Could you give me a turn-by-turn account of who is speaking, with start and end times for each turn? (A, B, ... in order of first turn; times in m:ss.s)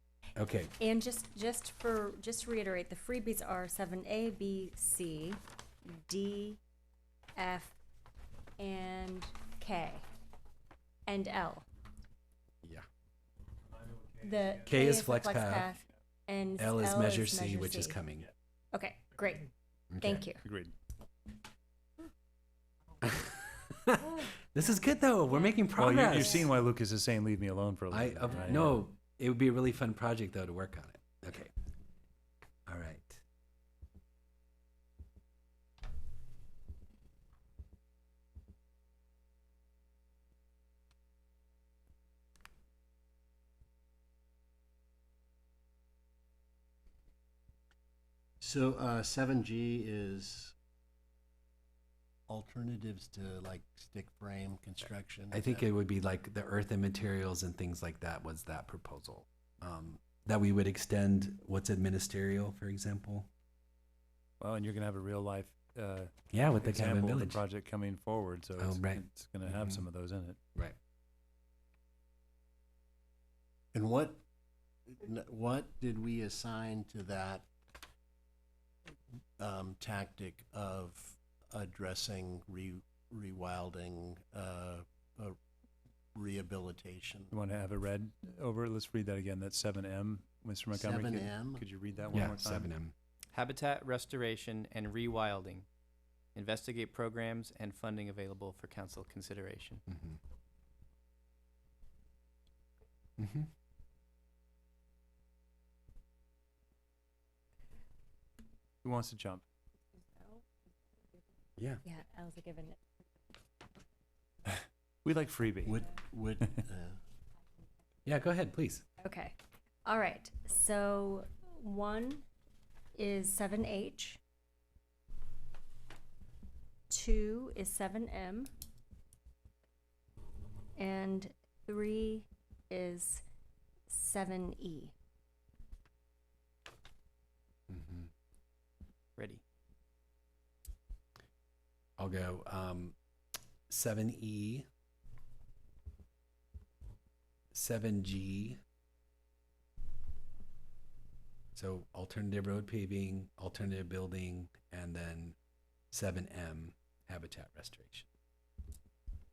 0:00.4-0:00.7 A
0:00.8-0:06.6 B
0:07.4-0:07.8 B
0:08.6-0:10.1 B
0:11.1-0:11.7 B
0:14.2-0:18.0 B
0:14.7-0:15.7 A
0:16.6-0:18.3 A
0:18.7-0:20.4 B
0:19.9-0:20.3 A
0:20.4-0:20.7 C
0:23.0-0:26.5 A
0:25.8-0:28.8 C
0:27.9-0:31.5 A
0:32.7-0:33.2 A
0:48.4-0:50.6 D
0:52.3-0:55.6 D
0:55.3-1:03.3 A
1:04.4-1:10.4 C
1:06.3-1:07.4 A
1:08.6-1:09.8 A
1:13.7-1:14.2 D
1:14.9-1:17.5 D
1:19.4-1:25.4 D
1:26.2-1:27.3 D
1:27.3-1:32.7 C
1:30.7-1:31.6 D
1:32.1-1:32.9 A
1:33.3-1:35.7 E
1:36.4-1:39.8 E
1:39.9-1:40.2 A
1:43.2-1:43.5 A
1:48.8-1:49.4 C
1:51.8-1:52.8 B
1:55.0-1:55.8 C
1:55.6-1:57.0 D
1:58.1-1:58.8 A
1:59.0-2:02.2 B
2:03.0-2:04.2 B
2:06.9-2:08.5 B
2:10.8-2:13.2 B
2:13.9-2:14.9 B
2:17.7-2:18.1 A
2:19.2-2:19.4 E
2:22.0-2:23.0 A
2:23.7-2:24.7 A
2:27.5-2:28.6 A
2:31.6-2:35.4 A
2:35.9-2:38.1 A